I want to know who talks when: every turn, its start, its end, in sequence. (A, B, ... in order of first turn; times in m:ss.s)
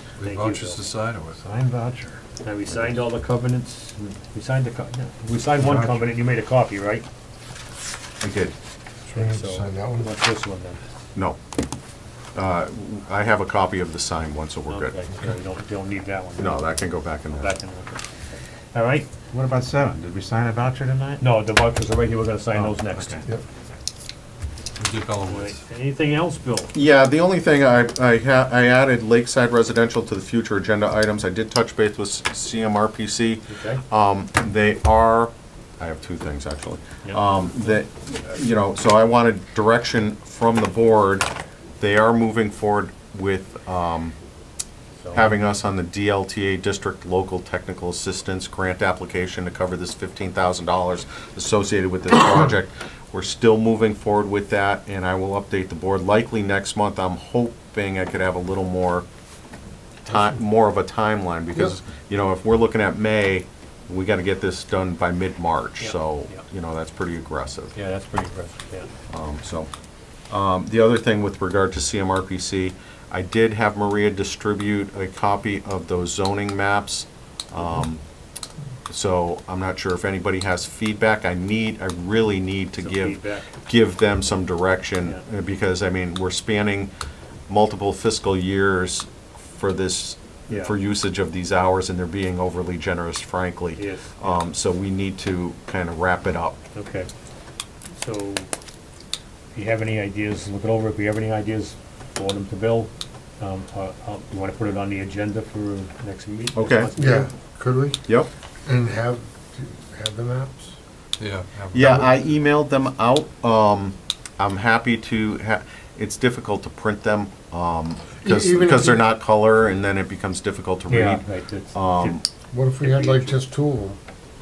0:00.2-0:01.4 A
0:00.2-0:07.0 B
0:05.6-0:05.9 A
0:08.2-0:08.5 C
0:09.1-0:10.1 D
0:09.1-0:10.8 B
0:12.3-0:15.0 C
0:14.7-0:18.1 B
0:16.4-0:17.5 C
0:18.7-0:19.1 B
0:19.3-0:21.2 E
0:21.2-0:23.3 B
0:24.8-0:25.6 A
0:25.2-0:26.7 B
0:26.7-0:41.3 C
0:33.5-0:33.8 B
0:37.0-0:37.7 B
0:41.8-0:44.1 C
0:45.0-0:45.3 B
0:45.1-0:59.0 C
1:00.0-1:07.7 C
1:05.8-1:06.4 B
1:07.7-1:08.9 B
1:09.1-1:09.7 C
1:10.3-1:18.0 C
1:18.9-1:26.9 C
1:22.8-1:23.6 B
1:27.5-1:36.6 C
1:33.7-1:34.4 B
1:36.7-1:37.1 B
1:38.0-1:38.5 B
1:39.5-1:47.3 B
1:46.5-1:46.9 C
1:46.9-1:48.0 D
1:48.6-1:50.7 D
1:51.2-1:52.1 A
1:51.7-2:02.2 C
1:58.2-1:59.0 D
2:00.9-2:02.2 B
2:02.5-2:04.0 D
2:02.8-2:03.4 B